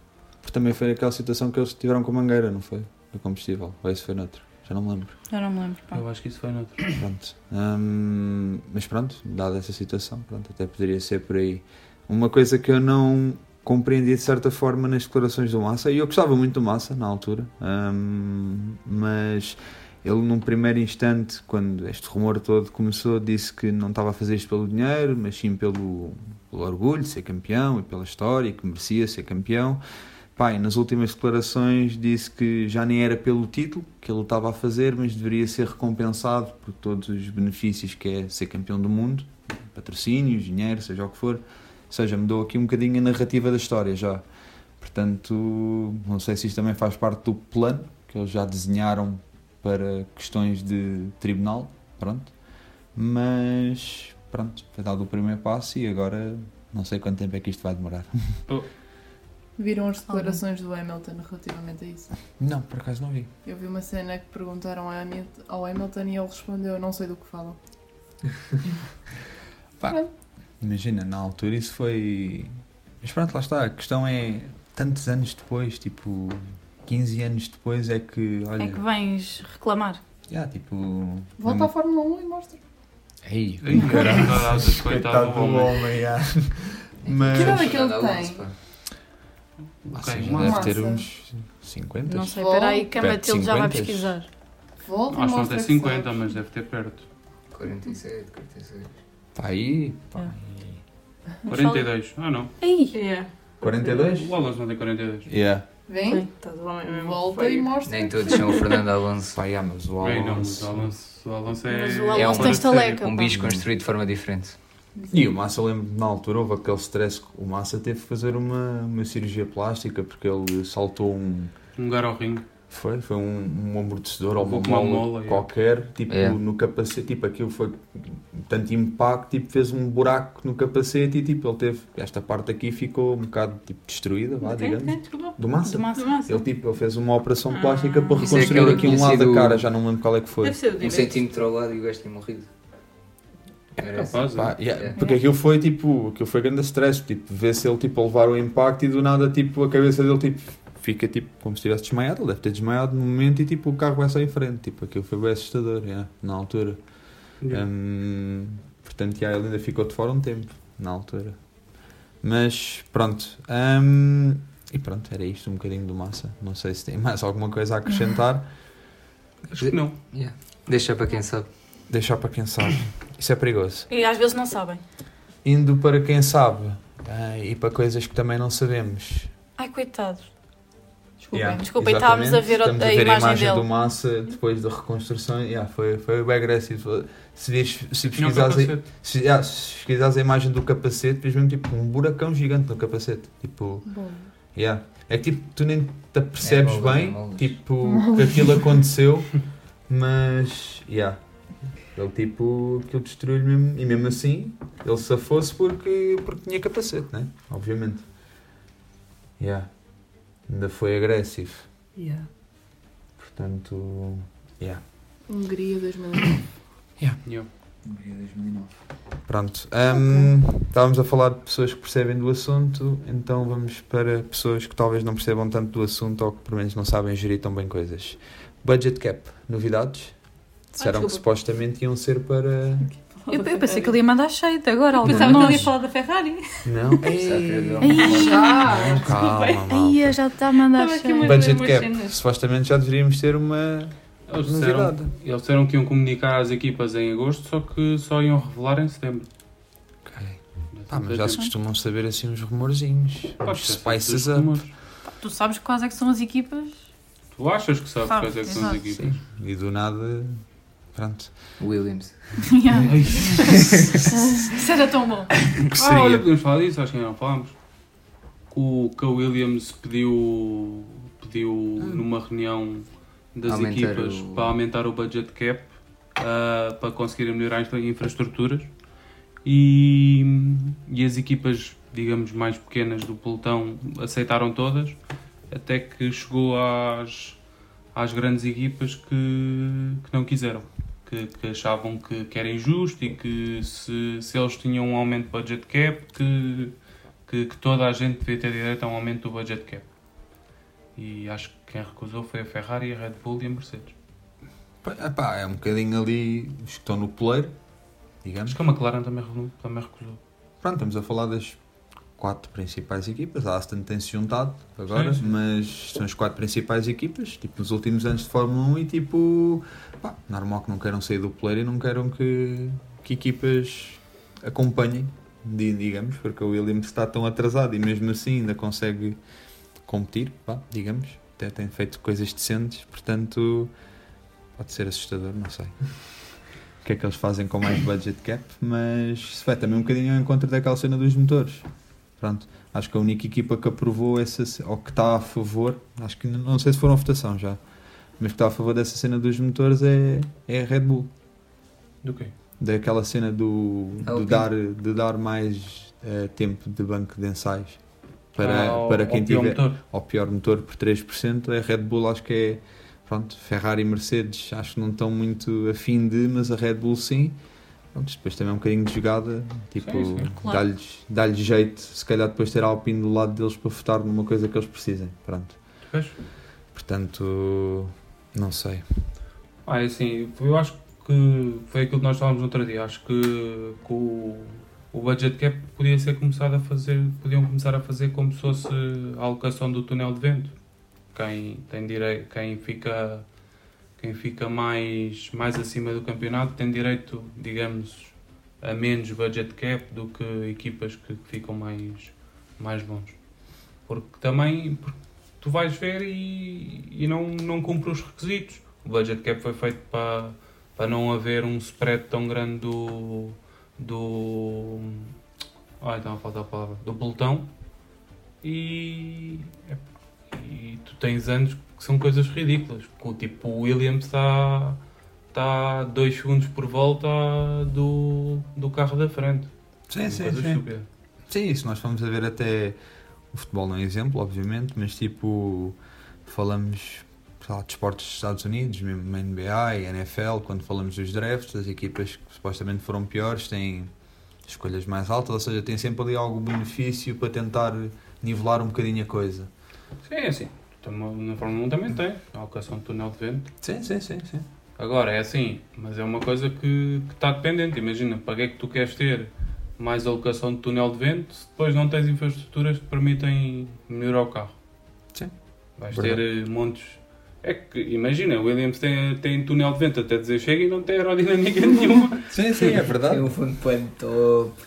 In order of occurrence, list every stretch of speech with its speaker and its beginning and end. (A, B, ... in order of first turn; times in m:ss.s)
0:00.4-0:05.2 A
0:05.3-0:06.0 B
0:05.9-0:06.8 C
0:06.9-0:29.8 A
0:30.3-0:44.2 A
0:44.8-0:52.3 A
0:52.9-0:58.4 A
0:59.6-1:02.1 D
1:00.1-1:00.4 B
1:02.4-1:03.3 A
1:03.4-1:07.6 D
1:10.6-1:18.8 A
1:18.6-1:20.0 B
1:20.3-1:21.7 A
1:21.4-1:22.6 D
1:23.2-1:24.2 E
1:23.6-1:25.8 C
1:23.7-1:27.8 A
1:27.0-1:28.5 E
1:27.3-1:28.4 D
1:29.8-1:30.7 C
1:29.9-1:32.4 A
1:30.3-1:31.0 D
1:32.1-1:34.2 B
1:32.3-1:32.9 D
1:33.0-1:34.1 A
1:34.8-1:36.3 D
1:35.1-1:37.0 C
1:37.5-1:38.9 E
1:39.3-1:40.8 A
1:41.4-1:41.9 B
1:41.5-1:42.5 C
1:42.6-1:43.0 B
1:42.9-1:44.1 F
1:43.6-1:44.3 A
1:43.8-1:45.3 C
1:45.3-1:45.6 A
1:45.9-1:46.3 D
1:46.3-1:48.7 F
1:46.8-1:48.6 D
1:47.8-1:49.4 E
1:49.3-1:50.8 A
1:50.0-1:53.2 C
1:51.6-1:53.4 B
1:52.1-1:54.6 E
1:55.1-2:01.5 A
2:01.8-2:02.4 C
2:02.7-2:20.6 A
2:04.4-2:05.4 C
2:06.1-2:06.4 E
2:14.4-2:16.4 F
2:15.6-2:16.2 B
2:17.5-2:18.8 F
2:18.2-2:19.6 E
2:20.4-2:21.2 F
2:20.8-2:22.5 E
2:23.8-2:36.8 A
2:23.8-2:24.9 E
2:24.0-2:24.5 C
2:37.5-2:41.4 A
2:42.2-2:48.5 A
2:49.5-2:49.9 C
2:49.6-2:51.5 E
2:51.9-2:53.9 A
2:53.9-2:54.8 B
2:55.4-2:59.3 A
2:59.6-3:00.3 B
3:01.2-3:01.6 F
3:01.3-3:13.8 A
3:01.6-3:03.6 B
3:08.1-3:08.8 C
3:14.5-3:19.3 A
3:16.4-3:17.6 E
3:17.8-3:18.8 D
3:19.9-3:21.2 A
3:21.9-3:28.1 A
3:29.4-3:29.7 A
3:30.5-3:31.7 A
3:32.0-3:32.3 F
3:33.2-3:34.8 A
3:35.3-3:36.4 D
3:37.8-3:38.8 A
3:39.3-3:50.2 A
3:50.7-3:52.9 A
3:50.8-3:51.2 F
3:53.1-3:54.0 F
3:53.3-3:55.7 B
3:55.0-3:56.9 F
3:55.0-3:55.7 A
3:56.6-4:00.2 A
3:57.2-3:58.5 E
3:57.8-3:58.8 B
3:58.1-3:59.6 F
3:58.3-3:59.0 D
3:59.7-4:01.4 B
4:00.6-4:02.2 F
4:01.2-4:05.1 A
4:04.3-4:09.3 C
4:10.0-4:14.6 A
4:10.7-4:11.4 C
4:13.4-4:14.7 C
4:15.2-4:16.8 B
4:17.4-4:19.2 C
4:18.0-4:18.8 B
4:19.0-4:20.4 A
4:20.9-4:21.3 A
4:21.6-4:22.3 E
4:22.4-4:23.4 B
4:22.8-4:23.8 C
4:23.4-4:23.9 E
4:24.0-4:25.3 B
4:25.6-4:26.2 A
4:25.7-4:27.5 C
4:28.5-4:38.7 C
4:33.4-4:34.5 E
4:39.4-4:45.0 C
4:45.5-4:47.4 C
4:47.9-4:56.7 C
4:57.3-4:59.8 C
5:01.0-5:03.9 C
5:04.8-5:07.5 A
5:08.2-5:08.6 A
5:08.4-5:10.2 C
5:10.6-5:11.6 A
5:12.2-5:29.2 A
5:14.9-5:15.2 C
5:29.8-5:33.7 A
5:34.6-5:35.7 A
5:36.8-5:41.6 A
5:42.2-5:47.6 A
5:48.2-5:51.1 A
5:52.0-5:52.3 C
5:52.6-5:57.8 A
5:54.0-5:54.5 E
5:58.3-6:07.4 A
5:58.4-5:59.8 C
6:07.9-6:15.6 A
6:09.8-6:10.3 C
6:10.4-6:10.6 B
6:15.9-6:16.2 C
6:16.7-6:18.8 A
6:19.6-6:30.5 C
6:31.1-6:33.2 C
6:34.0-6:43.2 C
6:43.9-6:55.1 C
6:55.8-6:57.5 C
6:58.4-7:04.8 C
7:05.3-7:09.5 C
7:09.9-7:10.6 A
7:10.0-7:10.8 C
7:11.3-7:12.8 A
7:13.3-7:23.9 A
7:24.4-7:29.5 A
7:30.0-7:33.5 C
7:33.6-7:34.4 A
7:34.8-7:44.5 C
7:45.8-7:52.7 C
7:45.9-7:46.2 A
7:52.3-7:53.3 A
7:53.0-7:54.6 E